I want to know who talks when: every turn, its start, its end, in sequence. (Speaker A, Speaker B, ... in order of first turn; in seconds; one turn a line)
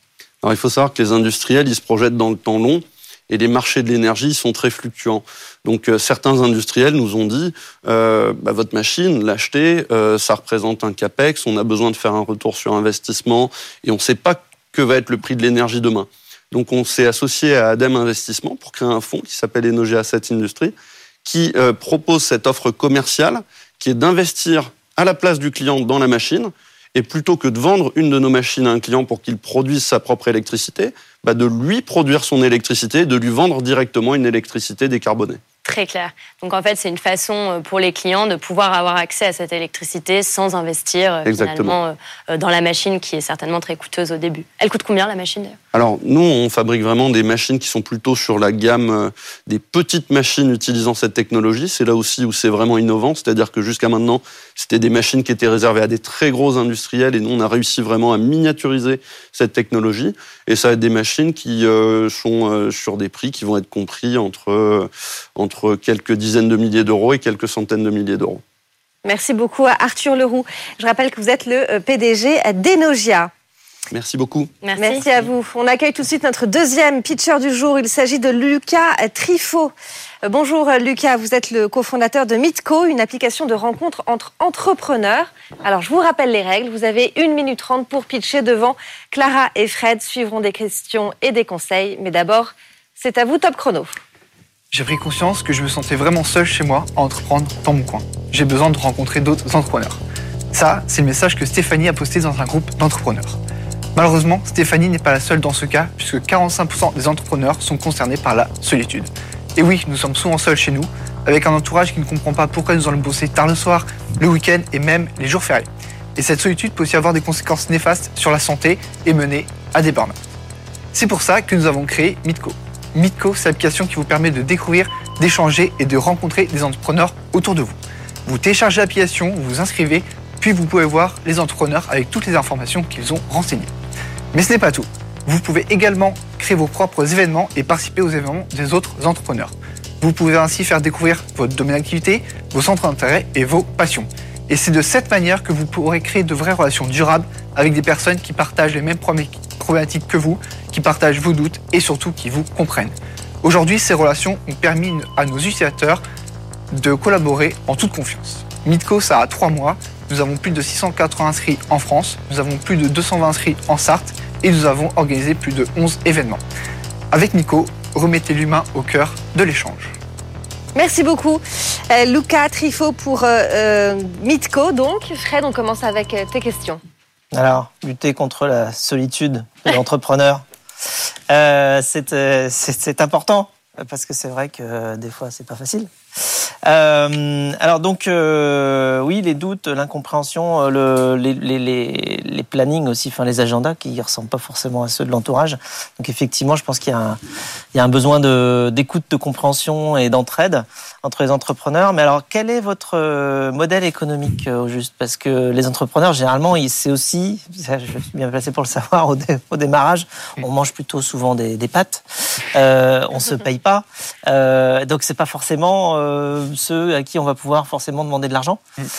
Speaker A: 0.4-35.4
Speaker B: 35.6-45.6
Speaker A: 41.2-41.8
Speaker A: 45.7-68.4
Speaker C: 69.0-73.3
Speaker A: 73.9-74.5
Speaker B: 74.6-75.1
Speaker C: 74.8-79.7
Speaker C: 80.2-94.0
Speaker D: 94.7-100.0
Speaker D: 100.5-103.4
Speaker D: 104.0-120.2
Speaker D: 120.9-133.7
Speaker D: 134.3-156.0
Speaker D: 156.7-166.4
Speaker D: 167.1-169.9
Speaker C: 170.7-176.8
Speaker E: 177.3-180.4
Speaker E: 181.3-197.2
Speaker E: 197.7-218.6